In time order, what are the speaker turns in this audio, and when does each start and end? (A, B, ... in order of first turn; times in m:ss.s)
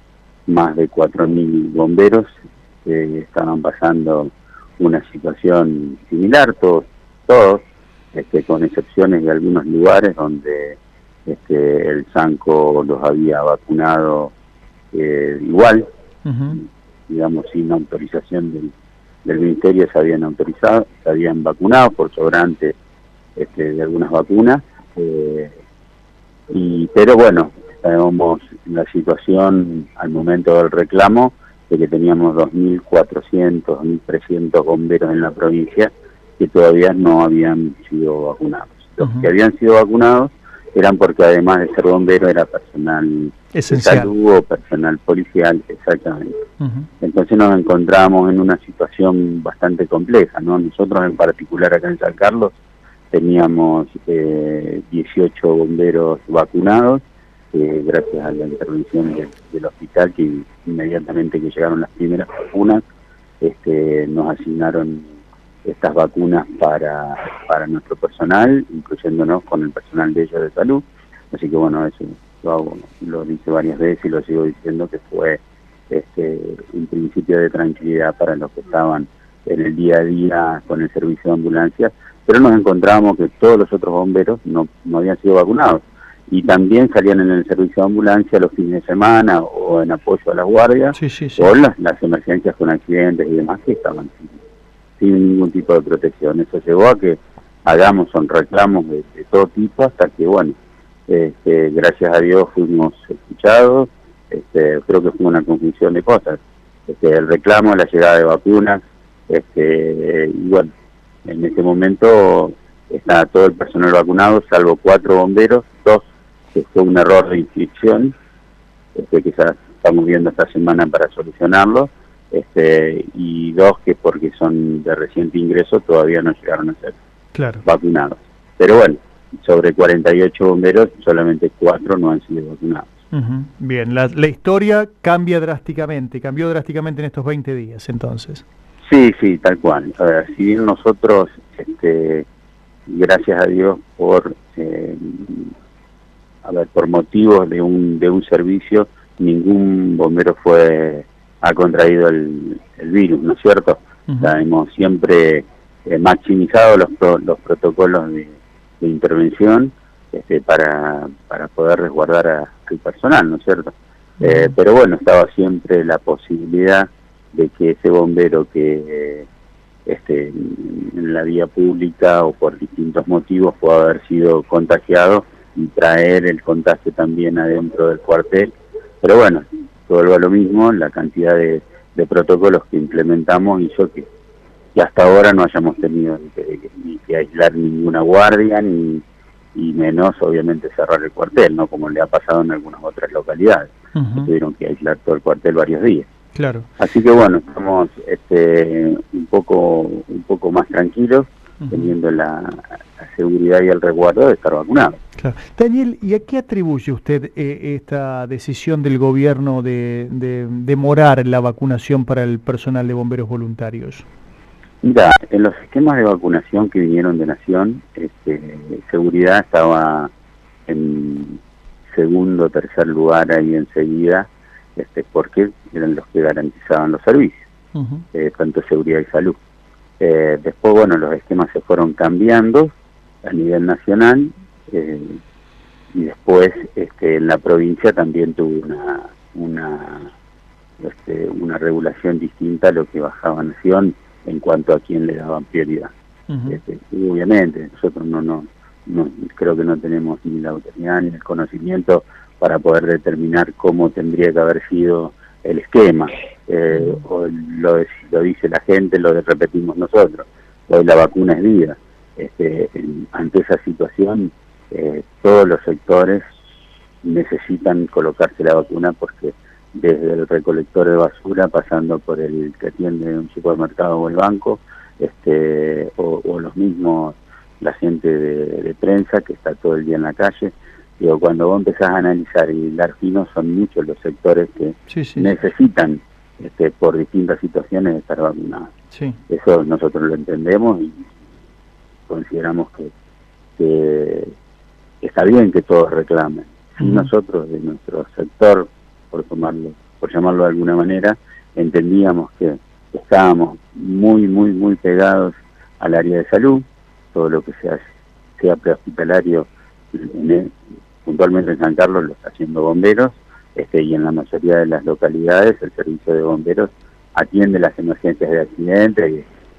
0:00.5-0:14.3 A
0:14.9-0:15.9 A
0:16.2-0:16.6 B
0:16.5-0:18.7 A
0:19.2-0:22.8 A
0:23.4-0:25.6 A
0:26.5-0:46.4 A
0:43.5-0:44.1 B
0:46.6-0:46.9 B
0:47.0-0:52.6 A
0:53.1-1:02.8 A
1:03.4-1:05.1 A
1:05.6-1:34.4 A
1:31.0-1:31.5 B
1:35.0-1:40.6 A
1:41.1-1:50.7 A
1:51.2-1:58.1 A
1:59.0-2:07.0 A
2:07.4-2:07.6 B
2:07.6-2:12.9 A
2:13.1-2:18.4 B
2:18.9-2:22.3 A
2:22.9-2:25.5 A
2:26.4-2:49.3 A
2:44.2-2:44.5 B
2:49.9-2:58.5 A
2:59.0-3:04.1 A
3:04.8-3:09.0 A
3:09.6-3:16.1 A
3:14.0-3:14.3 B
3:16.4-3:16.7 B
3:16.8-3:25.0 A
3:21.6-3:21.9 B
3:25.2-3:34.0 B
3:34.8-3:40.1 A
3:40.7-3:47.4 A
3:47.8-3:48.0 B
3:48.1-3:49.4 A
3:50.0-3:52.7 A
3:53.2-3:55.2 A
3:55.9-4:00.1 A
4:00.8-4:05.9 A
4:06.3-4:06.6 B
4:06.5-4:26.2 A
4:16.7-4:17.0 B
4:27.0-4:48.7 A
4:44.9-4:45.3 B
4:48.9-4:49.2 B
4:49.3-4:51.0 A
4:52.1-4:52.9 A
4:53.6-4:54.3 A
4:55.0-5:07.8 A
4:56.8-4:57.1 B
5:08.4-5:10.5 A
5:11.0-5:19.3 A